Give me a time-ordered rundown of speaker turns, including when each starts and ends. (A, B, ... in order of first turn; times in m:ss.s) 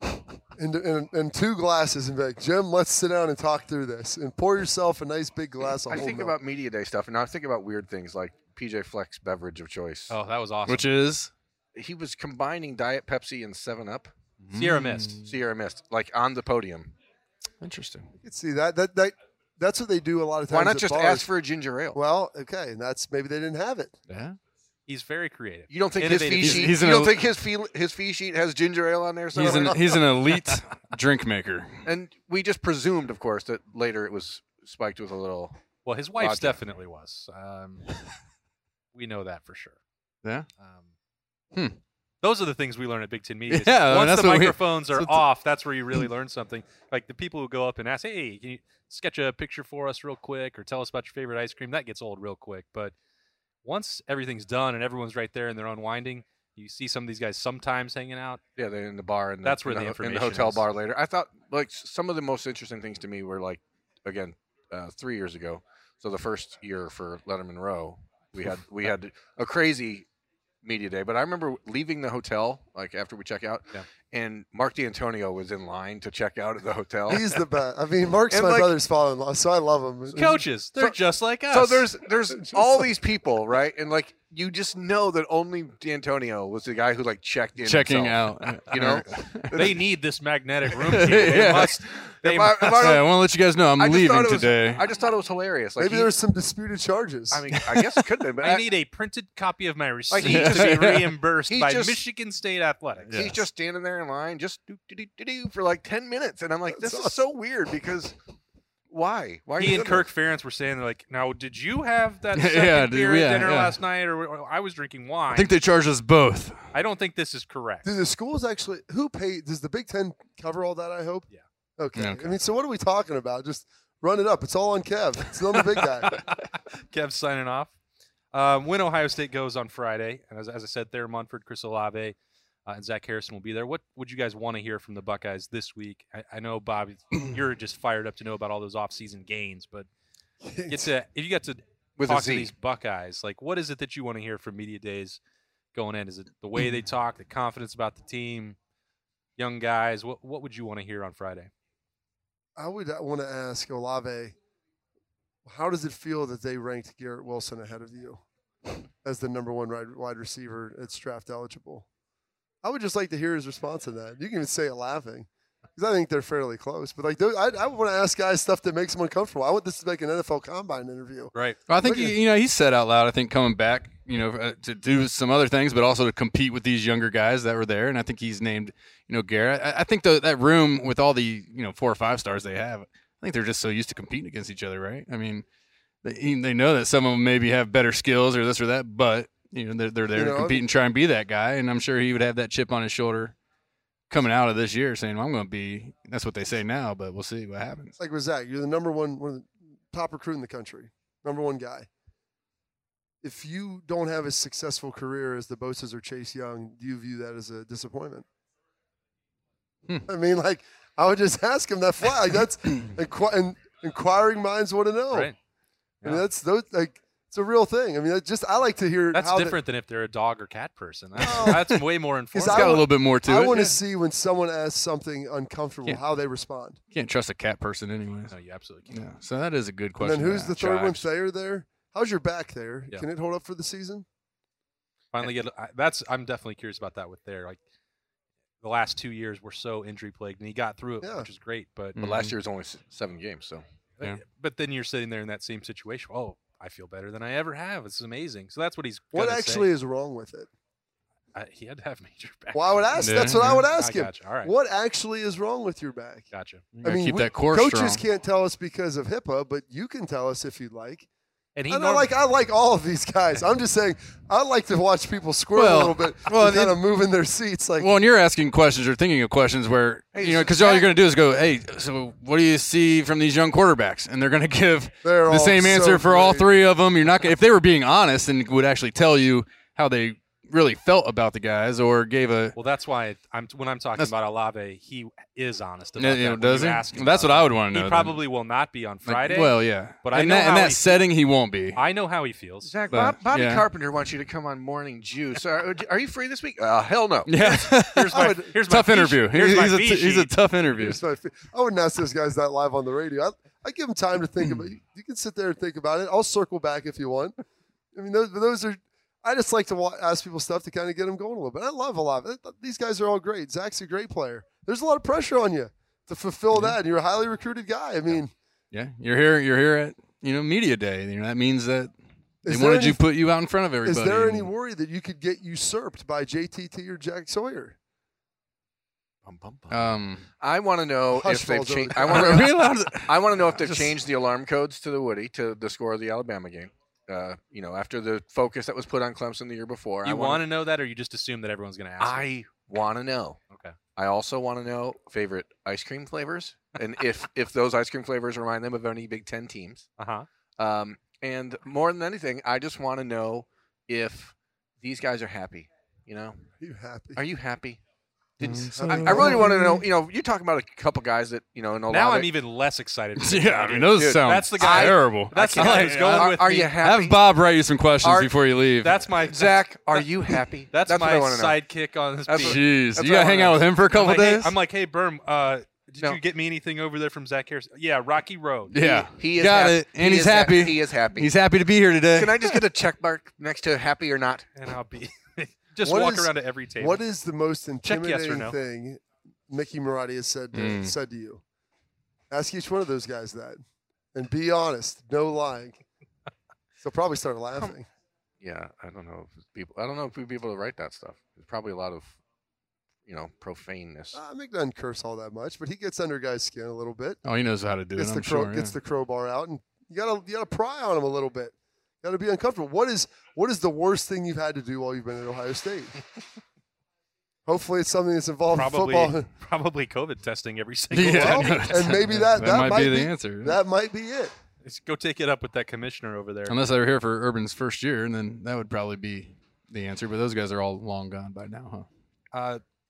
0:00.5-0:06.4 A
0:05.9-0:10.1 B
0:10.1-0:10.9 C
0:10.6-0:11.3 D
0:11.7-0:14.1 B
0:14.4-0:15.3 D
0:14.5-0:15.2 C
0:15.2-0:16.9 B
0:17.6-0:18.1 D
0:18.2-0:21.3 A
0:20.5-0:22.0 B
0:21.9-0:23.9 A
0:24.1-0:24.4 D
0:24.9-0:26.7 C
0:25.7-0:30.0 B
0:26.4-0:27.2 D
0:29.3-0:30.0 A
0:29.4-0:31.8 D
0:31.8-0:35.6 B
0:35.8-0:37.9 C
0:36.2-0:36.6 B
0:38.9-0:39.8 C
0:40.6-0:40.8 C
0:42.2-0:52.9 C
0:43.5-0:45.2 D
0:53.6-0:58.4 C
0:58.6-1:10.0 B
0:59.4-1:00.6 C
1:10.6-1:17.4 B
1:17.1-1:20.4 A
1:18.3-1:18.7 B
1:20.1-1:21.9 C
1:21.5-1:29.8 B
1:22.3-1:22.9 A
1:27.6-1:29.6 D
1:28.7-1:29.0 C
1:29.5-1:32.8 C
1:30.8-1:31.8 D
1:31.1-1:33.1 B
1:32.8-1:34.8 D
1:33.8-1:36.1 B
1:35.8-1:37.4 A
1:37.3-1:38.7 B
1:37.6-1:38.0 D
1:38.4-1:43.2 C
1:40.1-1:42.0 B
1:40.2-1:41.1 D
1:43.1-1:43.4 D
1:43.1-1:48.1 B
1:46.7-1:47.2 A
1:48.9-1:50.0 B
1:49.6-1:55.5 C
1:52.3-1:53.8 D
1:55.3-1:56.6 D
1:56.7-1:57.9 C
1:57.8-2:01.2 A
2:01.8-2:06.1 A
2:02.0-2:02.3 D
2:05.7-2:07.7 C
2:08.3-2:12.1 C
2:12.7-2:19.9 C
2:20.4-2:20.9 A
2:20.7-2:25.2 C
2:22.0-2:22.5 B
2:25.7-2:28.6 C
2:29.4-2:31.5 C
2:32.6-2:34.3 A
2:35.4-2:38.2 A
2:39.0-2:41.8 A
2:42.6-2:51.3 A
2:51.3-2:51.6 C
2:51.7-3:05.4 D
2:51.8-2:52.1 A
3:06.0-3:13.3 D
3:10.1-3:10.6 A
3:14.1-3:17.9 D
3:18.0-3:21.9 A
3:23.2-3:28.2 A
3:30.0-3:35.3 A
3:36.0-3:39.6 A
3:39.1-3:42.8 C
3:41.2-3:41.6 A
3:42.3-3:46.8 A
3:42.4-3:43.8 D
3:46.9-3:48.3 D
3:48.3-3:48.9 C
3:48.9-3:51.0 D
3:50.0-3:54.0 A
3:55.1-3:57.6 C
3:58.6-4:02.0 C
4:01.0-4:01.3 A
4:02.0-4:02.3 D
4:02.0-4:03.6 B
4:04.0-4:09.7 C
4:09.1-4:10.5 A
4:11.3-4:14.5 C
4:12.5-4:16.2 A
4:13.0-4:13.6 D
4:16.3-4:16.7 C
4:16.7-4:18.0 D
4:16.8-4:21.1 A
4:21.6-4:22.1 C
4:21.7-4:27.9 A
4:25.6-4:26.8 D
4:27.8-4:42.6 D
4:30.1-4:30.9 B
4:35.0-4:36.5 A
4:42.6-4:51.0 C
4:46.0-4:48.2 D
4:49.0-4:51.8 D
4:51.7-4:52.7 C
4:52.6-4:57.7 B
4:52.9-4:53.6 D
4:57.2-5:01.0 D
4:57.8-5:00.3 C
4:58.1-4:58.5 A
5:00.7-5:07.3 A
5:07.9-5:18.3 A
5:18.7-5:21.9 D
5:22.4-5:23.0 A
5:22.5-5:24.5 D
5:23.8-5:27.8 A
5:29.2-5:40.4 B
5:29.7-5:30.3 D
5:31.1-5:32.5 A
5:32.0-5:33.9 D
5:40.0-5:42.3 C
5:42.0-5:43.4 B
5:43.5-5:43.8 C
5:44.0-5:49.9 B
5:50.0-5:50.3 C
5:50.6-5:56.4 B
5:56.6-5:57.2 A
5:57.2-5:57.8 B
5:58.4-6:02.3 B
5:58.4-5:59.8 D
5:58.7-5:59.8 A
6:01.9-6:06.7 C
6:03.2-6:09.0 D
6:03.9-6:07.2 B
6:08.0-6:08.3 B
6:08.8-6:10.0 C
6:09.2-6:11.6 B
6:10.7-6:12.6 C
6:12.3-6:13.6 B
6:12.4-6:14.5 D
6:13.9-6:18.8 C
6:18.7-6:22.6 D
6:19.2-6:21.3 B
6:22.1-6:24.5 B
6:24.6-6:27.0 C
6:25.8-6:31.4 A
6:27.8-6:28.6 C
6:30.5-6:30.9 D
6:32.3-6:33.6 A
6:34.1-6:35.8 A
6:36.8-6:37.9 A
6:38.4-6:42.1 B
6:43.1-6:44.2 B
6:44.1-6:47.2 A
6:47.2-6:48.7 D
6:48.0-6:55.9 A
6:57.4-6:59.3 A
6:58.5-7:01.8 C
7:00.9-7:03.6 D
7:01.1-7:04.3 A
7:04.6-7:06.6 C
7:06.5-7:11.9 D
7:12.3-7:12.6 C